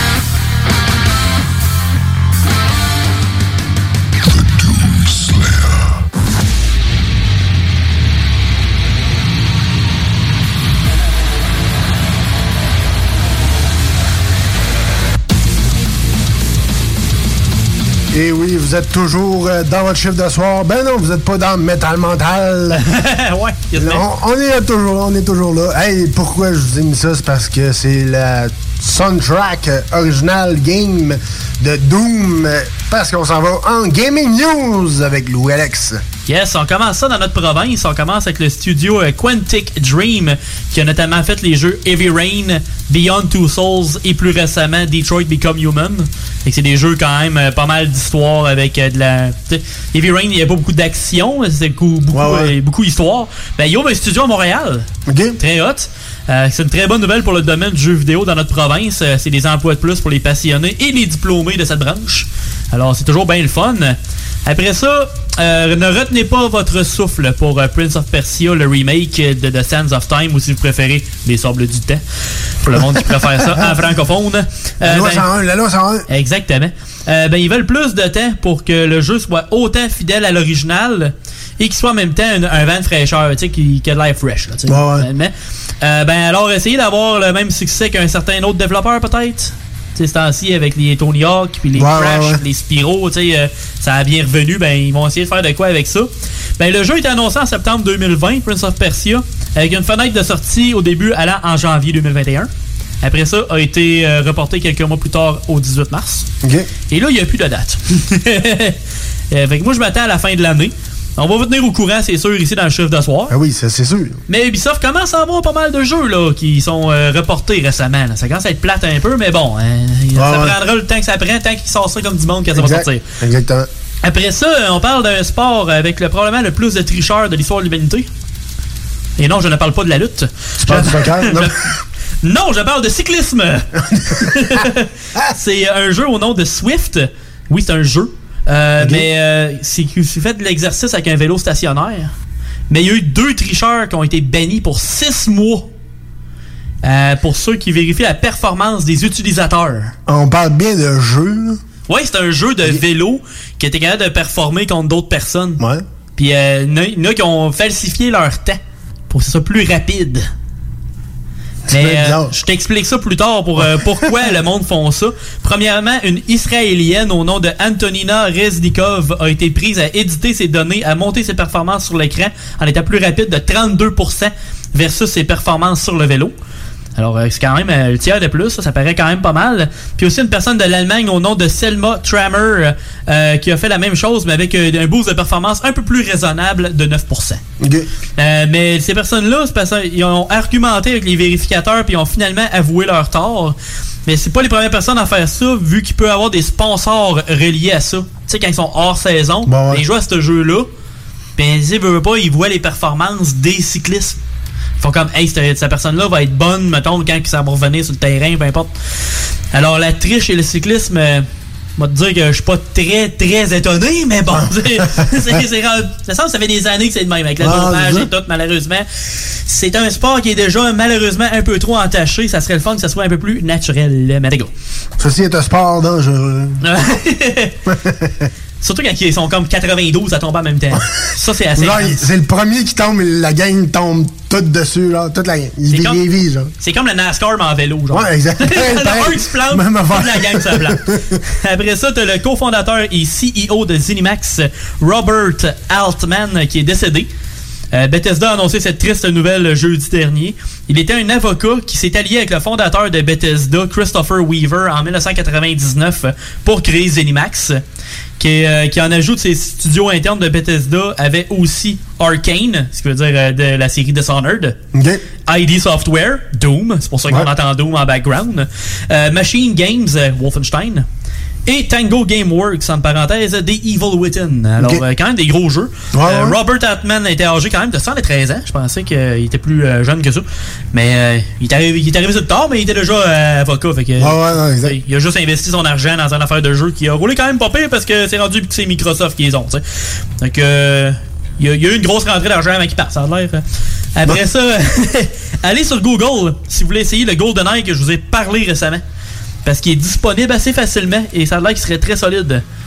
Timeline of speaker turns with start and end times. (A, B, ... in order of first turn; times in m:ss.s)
0:18.1-0:22.8 A
0:22.9-0:24.0 B
0:23.8-0:36.0 A
0:36.3-0:54.9 B
0:52.1-0:52.5 A
0:55.1-0:55.4 A
0:55.4-1:12.0 B
1:12.6-1:15.2 B
1:13.0-1:13.7 A
1:14.8-1:16.1 A
1:16.1-1:42.5 B
1:24.7-1:25.1 A
1:31.8-1:32.4 A
1:43.0-1:46.3 B
1:46.4-1:46.7 A
1:46.9-1:48.8 B
1:49.3-1:53.3 B
1:53.3-1:54.2 A
1:54.3-2:03.0 B
2:00.2-2:00.6 A
2:02.6-2:03.7 A
2:04.0-2:08.1 B
2:09.2-2:11.6 B
2:10.6-2:11.5 A
2:12.2-2:22.1 B
2:18.8-2:19.1 A
2:22.7-2:25.7 B
2:26.8-2:29.9 B
2:30.1-2:31.6 A
2:31.9-2:35.6 B
2:36.2-2:40.3 B
2:41.7-2:42.3 A
2:41.7-2:56.3 B
2:57.0-3:07.4 B
3:07.6-3:07.9 A
3:08.2-3:20.7 B
3:19.5-3:19.8 A
3:21.4-3:24.2 B
3:24.8-3:28.7 B
3:29.5-3:31.3 B
3:31.8-3:38.8 B
3:37.4-3:38.1 A
3:39.5-3:44.5 B
3:45.0-3:46.6 A
3:46.6-3:47.5 B
3:47.7-3:48.3 A
3:48.6-3:52.0 B
3:51.6-3:56.5 A
3:55.7-3:56.0 B
3:56.6-4:00.8 B
3:57.9-4:00.9 A
4:01.4-4:07.1 B
4:07.7-4:17.6 B
4:18.2-4:24.6 B
4:24.7-4:25.0 A
4:25.3-4:30.9 B
4:31.5-4:49.6 B
4:35.9-4:36.4 A
4:44.0-4:44.8 A
4:50.2-4:53.4 B
4:54.0-4:58.8 B
4:59.4-5:02.4 B